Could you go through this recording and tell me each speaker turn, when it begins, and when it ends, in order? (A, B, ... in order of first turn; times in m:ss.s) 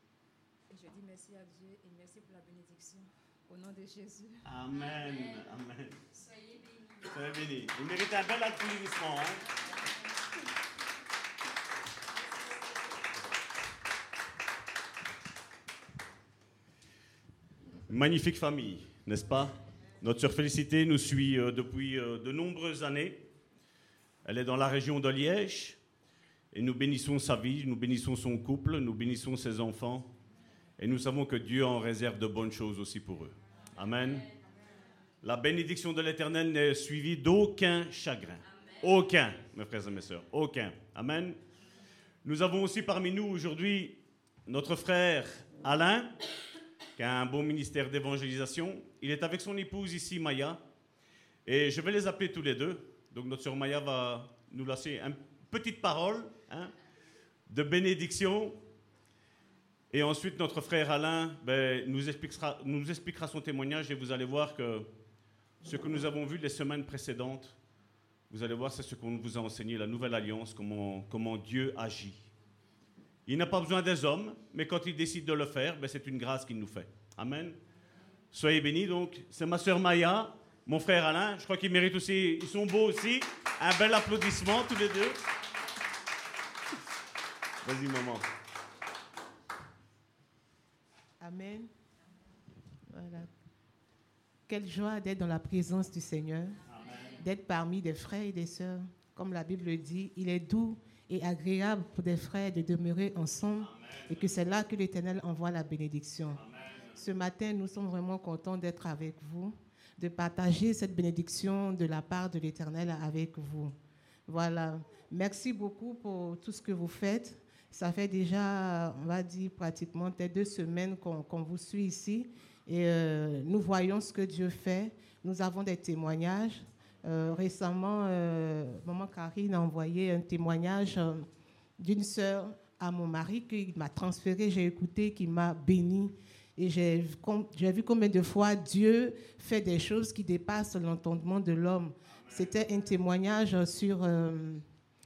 0:00.7-0:04.4 A
0:04.4-0:06.1 B
0:06.2-0:06.9 A
0:07.0-0:09.5 B
0:17.9-0:23.3 B
0:24.2-0:25.8 B
0:26.5-0:30.1 B
0:30.8-0:34.3 B
0:35.2-0:41.4 B
0:42.2-0:46.1 B
0:47.0-0:50.6 B
0:51.5-0:56.7 B
0:57.5-0:58.6 B
0:59.9-1:04.9 B
1:05.6-1:07.6 B
1:08.3-1:12.3 B
1:13.3-1:17.6 B
1:18.3-1:25.2 B
1:27.6-1:28.3 B
1:31.2-1:31.7 C
1:32.9-1:33.3 C
1:34.5-1:36.6 C
1:36.7-1:37.2 B
1:37.2-1:46.4 C
1:43.6-1:44.4 B
1:46.3-1:47.0 B
1:47.0-1:53.8 C
1:54.3-2:24.7 C
2:22.1-2:22.5 B